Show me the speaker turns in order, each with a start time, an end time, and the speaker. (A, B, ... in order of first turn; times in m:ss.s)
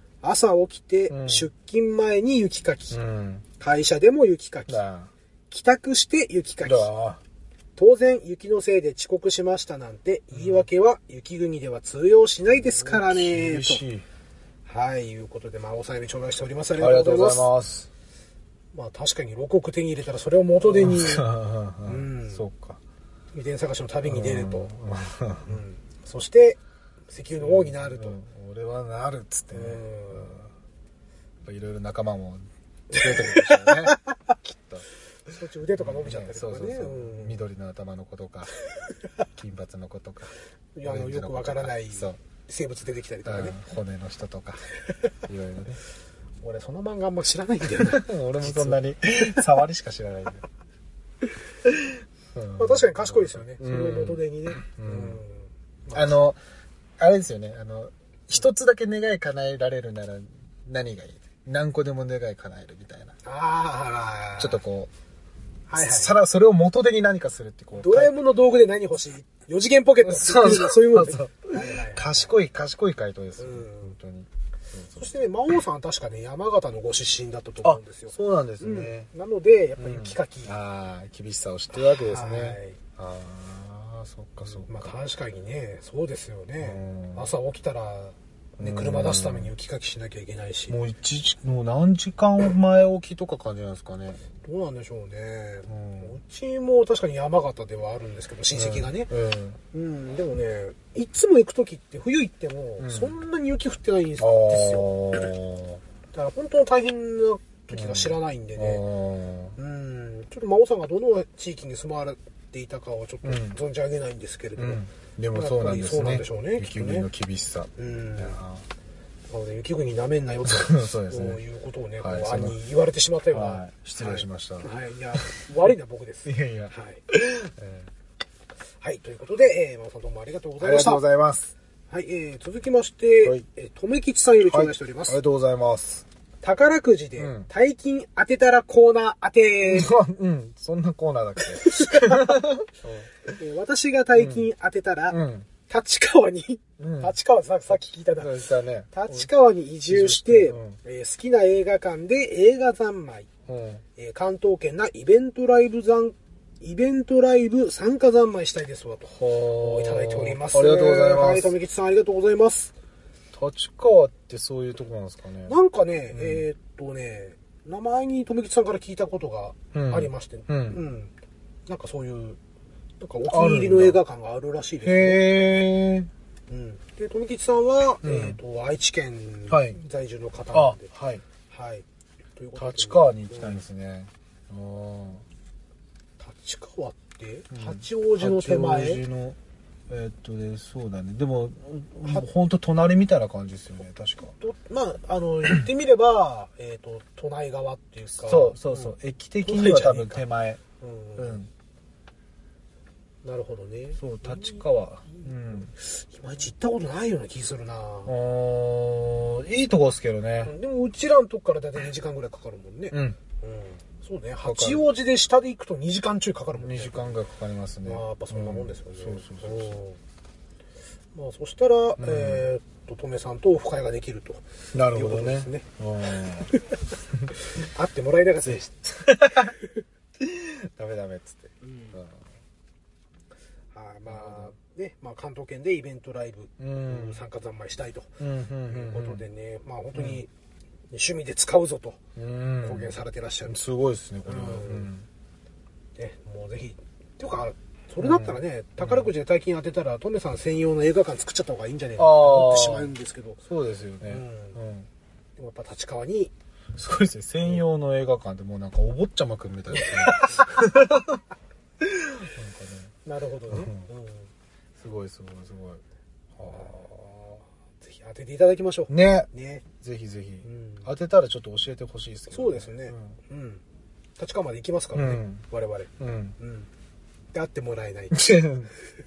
0:00.2-0:03.0 A
0:01.1-0:01.5 B
0:02.9-0:03.4 B
0:03.6-0:04.8 A
0:04.7-0:05.1 B
0:05.5-0:06.9 A
0:06.6-0:07.2 B
0:07.8-0:13.8 A
0:10.3-0:10.7 B
0:12.5-0:14.0 B
0:14.6-0:17.5 A
0:16.8-0:17.9 B
0:18.7-0:21.3 A
0:20.6-0:22.8 B
0:21.8-0:22.4 A
0:23.3-0:24.7 A
0:24.0-0:25.6 B
0:25.4-0:28.2 A
0:27.4-0:30.5 B
0:29.5-0:30.4 A
0:31.4-0:34.8 B
0:32.9-0:34.1 A
0:35.3-0:37.4 A
0:35.8-0:38.5 B
0:39.4-0:40.3 B
0:40.8-0:43.6 A
0:40.8-0:42.2 B
0:43.2-0:44.6 B
0:45.3-0:45.8 B
0:46.4-0:48.8 A
0:47.8-0:50.4 B
0:52.3-0:55.2 B
0:52.6-0:56.1 A
0:55.9-0:56.4 B
0:57.0-1:03.1 B
1:03.2-1:04.6 A
1:04.4-1:04.9 B
1:05.7-1:06.2 A
1:05.7-1:08.1 B
1:07.7-1:12.3 A
1:10.0-1:15.1 B
1:13.4-1:13.9 A
1:14.9-1:20.5 A
1:17.6-1:19.1 B
1:19.8-1:24.9 B
1:21.7-1:22.8 A
1:24.4-1:30.8 A
1:26.6-1:27.3 B
1:28.6-1:29.5 B
1:30.7-1:34.2 B
1:34.4-1:39.1 A
1:35.7-1:36.1 B
1:38.5-1:39.6 B
1:39.7-1:45.3 A
1:42.8-1:43.2 B
1:44.2-1:45.8 B
1:46.1-1:48.8 A
1:47.7-1:49.5 B
1:49.6-1:57.1 A
1:53.2-1:53.6 B
1:54.6-1:58.6 B
1:57.8-1:58.4 A
1:59.3-2:07.0 A
2:00.5-2:01.4 B
2:02.0-2:02.6 B
2:03.3-2:05.3 B
2:06.2-2:07.9 B
2:08.8-2:11.0 A
2:10.6-2:11.5 B
2:11.9-2:15.2 A
2:14.4-2:16.0 B
2:16.4-2:19.9 A
2:17.2-2:17.5 B
2:19.7-2:23.3 B
2:21.5-2:22.4 A
2:23.3-2:33.3 A
2:24.2-2:24.4 B
2:25.1-2:25.5 B
2:26.8-2:27.1 B
2:28.2-2:29.3 B
2:29.9-2:30.8 B
2:33.5-2:33.8 B
2:34.0-2:42.7 A
2:39.1-2:41.5 B
2:43.3-2:45.5 B
2:45.5-2:51.1 A
2:46.1-2:46.4 B
2:49.7-2:50.8 B
2:51.7-2:52.4 A
2:53.0-2:55.2 A
2:53.3-2:54.0 B
2:54.8-2:56.1 B
2:56.5-3:00.9 A
2:58.0-2:58.4 B
2:59.5-2:59.8 B
3:00.5-3:01.2 B
3:01.5-3:01.8 A
3:02.4-3:03.6 A
3:02.6-3:05.2 B
3:06.2-3:09.0 A
3:07.5-3:09.4 B
3:09.9-3:14.3 B
3:14.4-3:20.2 A
3:18.2-3:20.6 B
3:20.8-3:21.4 A
3:21.2-3:21.5 B
3:23.2-3:24.6 A
3:24.0-3:25.7 B
3:25.1-3:28.1 A
3:28.0-3:30.5 B
3:30.4-3:37.2 A
3:32.9-3:33.2 B
3:34.4-3:34.8 B
3:36.6-3:39.8 B
3:37.8-3:40.0 A
3:41.1-3:45.7 A
3:42.0-3:42.5 B
3:44.7-3:46.5 B
3:46.5-3:46.8 A
3:47.3-3:49.7 A
3:49.0-3:49.5 B
3:50.2-3:52.2 B
3:51.6-3:52.0 A
3:53.7-4:00.3 A
3:54.1-3:54.5 B
3:56.6-3:57.2 B
3:58.2-3:59.2 B
3:59.9-4:00.2 B
4:00.9-4:02.0 A
4:02.2-4:02.9 B
4:02.6-4:03.6 A
4:03.4-4:05.1 B
4:04.2-4:04.9 A
4:06.0-4:13.4 A
4:08.0-4:09.1 B
4:12.0-4:12.9 B
4:13.4-4:14.9 B
4:14.0-4:14.6 A
4:15.4-4:16.3 A
4:16.7-4:21.2 B
4:19.7-4:20.8 A
4:21.8-4:22.9 B
4:23.0-4:24.3 A
4:23.5-4:23.8 B
4:24.8-4:25.8 B
4:26.4-4:26.8 B
4:26.4-4:29.6 A
4:28.9-4:29.3 B
4:29.8-4:33.2 B
4:30.4-4:30.9 A
4:32.3-4:33.6 A
4:34.2-4:36.7 A
4:34.9-4:35.4 B
4:36.0-4:36.4 B
4:37.3-4:38.2 A
4:38.1-4:38.7 B